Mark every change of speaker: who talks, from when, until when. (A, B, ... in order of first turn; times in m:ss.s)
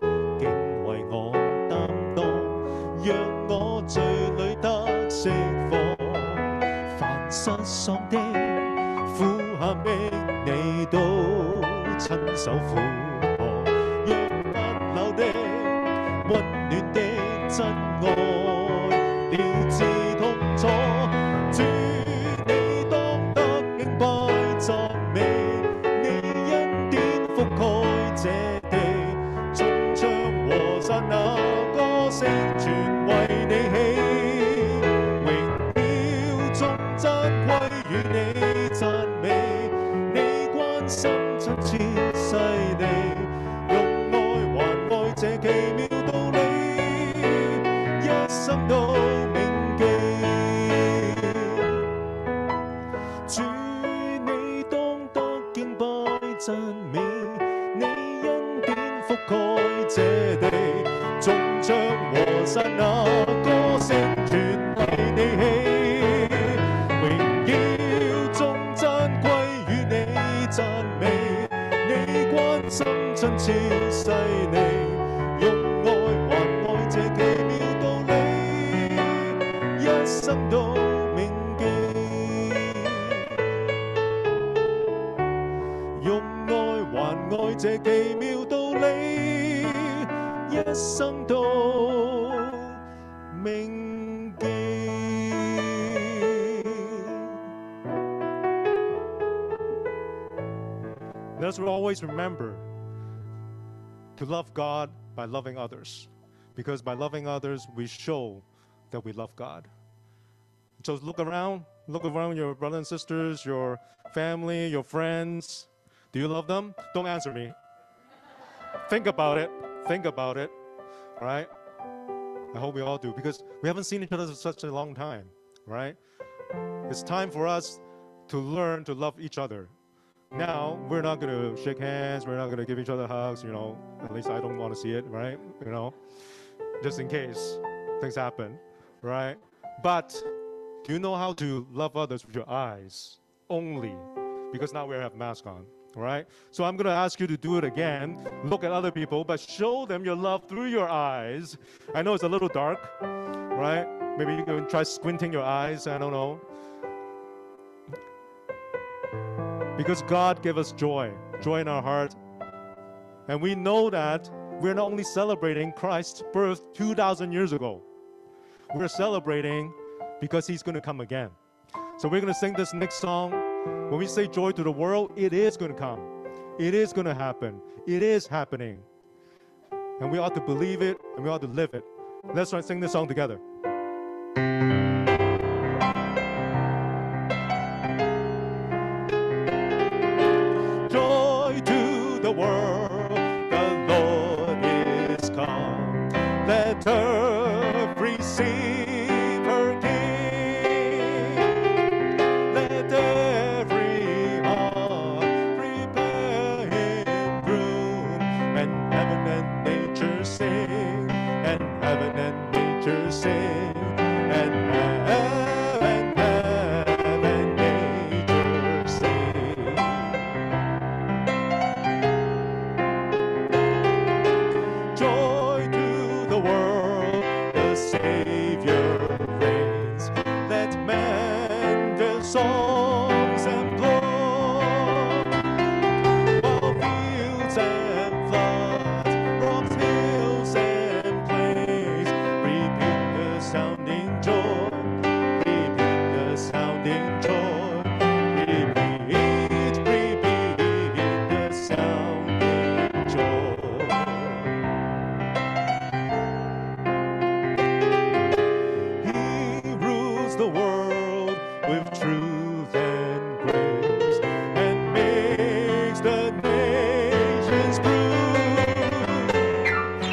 0:00.4-0:51.9 A
0:53.3-1:23.4 A
1:26.0-1:37.4 A
1:41.4-1:42.6 A
1:44.2-1:49.7 A
1:50.8-1:57.6 A
1:58.9-2:00.5 A
2:01.2-2:01.5 A
2:02.5-2:06.0 A
2:06.9-2:09.7 A
2:10.3-2:16.0 A
2:16.8-2:20.3 A
2:20.8-2:33.0 A
2:33.5-2:36.4 A
2:39.8-2:42.2 A
2:43.3-2:47.8 A
2:48.7-2:51.4 A
2:52.0-2:58.9 A
3:00.0-3:03.4 A
3:10.9-3:21.7 A
3:22.5-3:40.4 A
3:44.9-3:55.3 A
3:56.4-4:14.6 A
4:19.0-4:29.6 A